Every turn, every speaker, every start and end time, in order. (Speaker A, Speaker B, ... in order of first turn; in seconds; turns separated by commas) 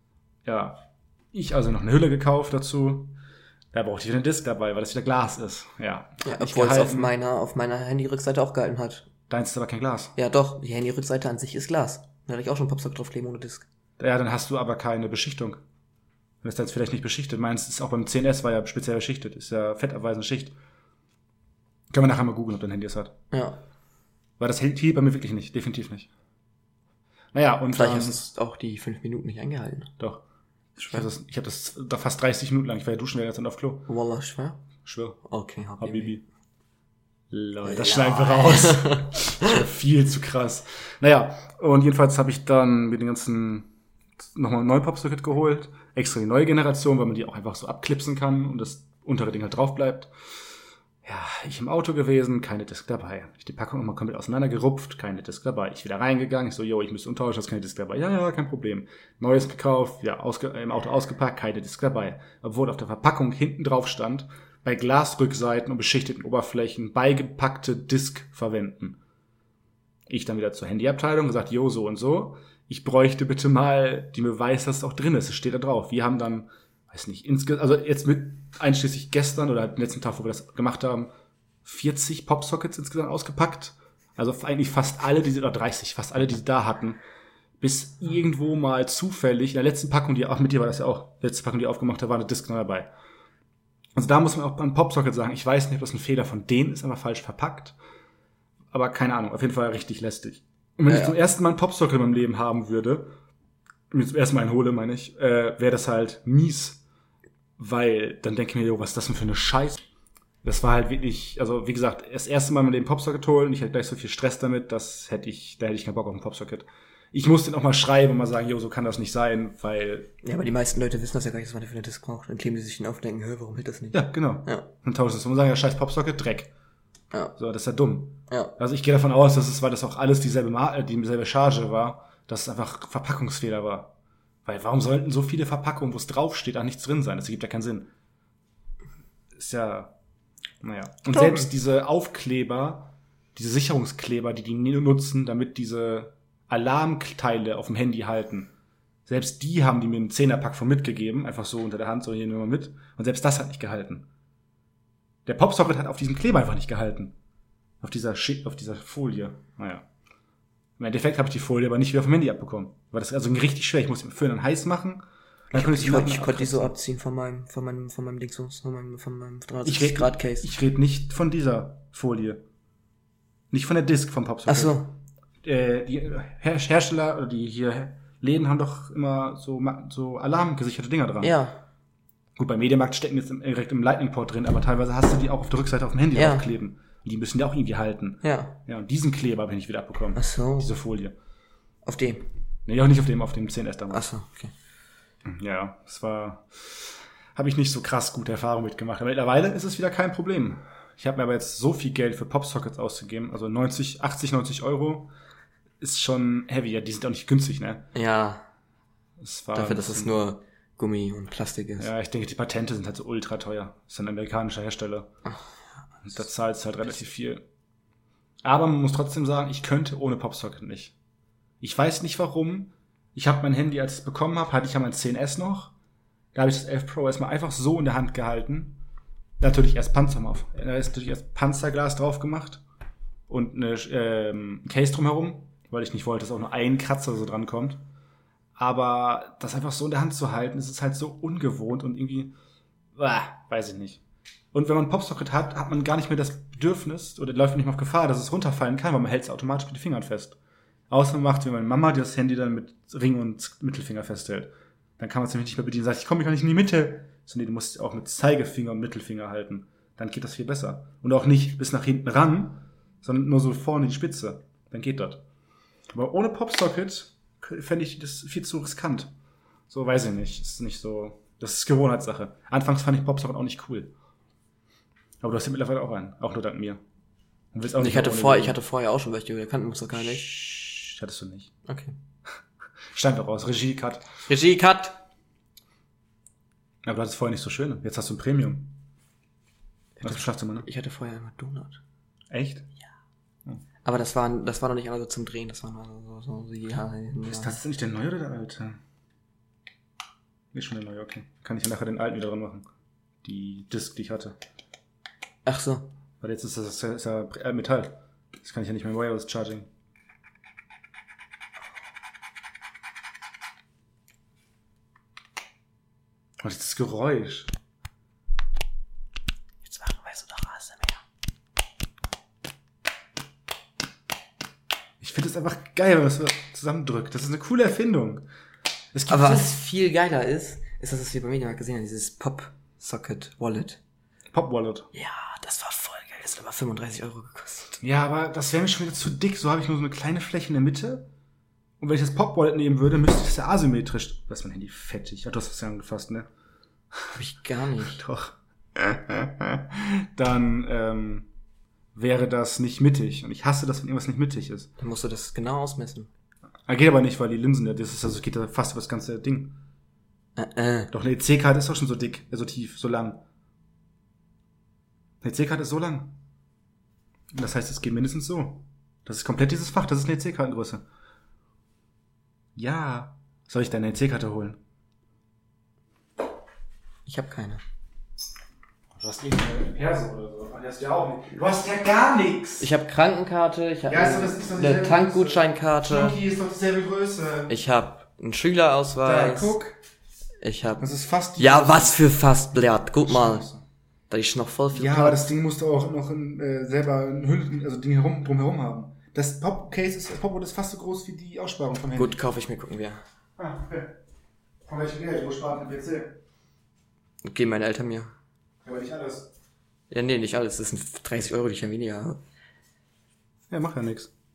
Speaker A: 0.4-3.1, Speaker A: 3.7-7.1, Speaker B: 6.2-9.1, Speaker A: 9.3-10.1, Speaker B: 10.2-13.7, Speaker A: 14.0-15.6, Speaker A: 16.4-20.5, Speaker A: 21.9-23.1, Speaker B: 23.3-23.6, Speaker A: 24.4-26.1, Speaker A: 27.3-28.2, Speaker B: 27.7-29.9, Speaker A: 30.8-33.9, Speaker B: 33.9-34.6, Speaker A: 34.8-35.2, Speaker B: 35.2-36.1, Speaker A: 35.8-36.2, Speaker A: 37.3-43.7, Speaker B: 37.6-39.5, Speaker A: 44.3-50.1, Speaker A: 51.0-69.0, Speaker A: 70.1-81.1, Speaker A: 81.6-87.0, Speaker A: 87.6-92.9, Speaker A: 94.0-97.7, Speaker A: 98.7-103.2, Speaker B: 100.9-101.1, Speaker A: 103.9-106.8, Speaker A: 107.6-109.8, Speaker A: 110.4-120.1, Speaker B: 120.2-124.7, Speaker A: 123.9-126.5, Speaker A: 127.4-133.9, Speaker B: 128.3-128.5, Speaker A: 134.4-137.9, Speaker A: 139.3-139.9, Speaker A: 140.6-148.5, Speaker B: 141.1-141.5, Speaker A: 149.1-154.1, Speaker A: 155.2-157.1, Speaker A: 157.8-159.8, Speaker A: 160.8-166.7, Speaker B: 165.5-170.5, Speaker A: 169.6-172.4, Speaker A: 173.5-174.8, Speaker B: 174.5-174.9, Speaker A: 175.4-181.3, Speaker B: 181.2-181.6, Speaker A: 182.3-191.1, Speaker B: 186.1-186.4, Speaker B: 188.2-188.6, Speaker B: 190.2-190.7, Speaker B: 191.8-192.3, Speaker A: 192.7-194.1, Speaker B: 193.9-194.5, Speaker A: 195.2-205.1, Speaker A: 205.8-207.9, Speaker B: 207.9-208.4, Speaker A: 209.2-210.2, Speaker B: 209.5-211.9, Speaker A: 211.8-215.1, Speaker A: 216.0-217.4, Speaker A: 218.4-220.9, Speaker A: 221.6-225.7, Speaker A: 226.3-228.8, Speaker A: 229.4-232.6, Speaker A: 233.3-237.8, Speaker A: 238.6-242.3, Speaker A: 242.9-244.0, Speaker A: 244.5-250.4, Speaker A: 250.9-265.2, Speaker A: 265.9-269.1, Speaker A: 269.7-273.9, Speaker A: 275.2-276.8, Speaker A: 277.5-278.6, Speaker B: 277.8-280.4, Speaker A: 280.3-281.5, Speaker B: 281.6-281.9, Speaker A: 282.9-284.1, Speaker B: 284.3-285.0, Speaker A: 286.8-288.7, Speaker B: 290.0-291.8, Speaker A: 290.0-290.7, Speaker A: 292.3-292.7, Speaker B: 293.8-297.5, Speaker A: 297.3-298.8, Speaker A: 300.5-302.7, Speaker A: 303.2-304.4, Speaker B: 305.4-305.9, Speaker A: 306.2-309.7, Speaker A: 316.4-317.5, Speaker B: 319.6-321.0, Speaker A: 325.0-328.2, Speaker A: 328.9-329.6, Speaker B: 329.1-333.8, Speaker A: 334.3-334.9, Speaker B: 334.9-337.8, Speaker A: 337.8-341.1, Speaker A: 341.8-346.3, Speaker B: 347.1-348.0, Speaker A: 347.8-351.3, Speaker A: 351.9-354.7, Speaker B: 354.8-356.1, Speaker A: 356.7-359.6, Speaker B: 360.4-360.9, Speaker A: 360.9-363.2, Speaker A: 365.2-366.1, Speaker A: 367.3-370.8, Speaker A: 372.6-374.6, Speaker B: 377.1-377.6, Speaker A: 378.9-382.7, Speaker B: 382.6-386.2, Speaker A: 383.9-387.5, Speaker B: 387.5-389.5, Speaker A: 389.0-389.8, Speaker B: 390.4-390.8, Speaker A: 390.8-392.1, Speaker B: 391.4-393.4, Speaker A: 393.0-393.6, Speaker B: 394.1-395.2, Speaker A: 394.7-402.2, Speaker B: 401.9-403.0, Speaker A: 403.4-403.9, Speaker A: 404.6-406.2, Speaker B: 407.2-408.1, Speaker A: 408.6-409.3, Speaker B: 409.9-412.2, Speaker A: 413.5-414.1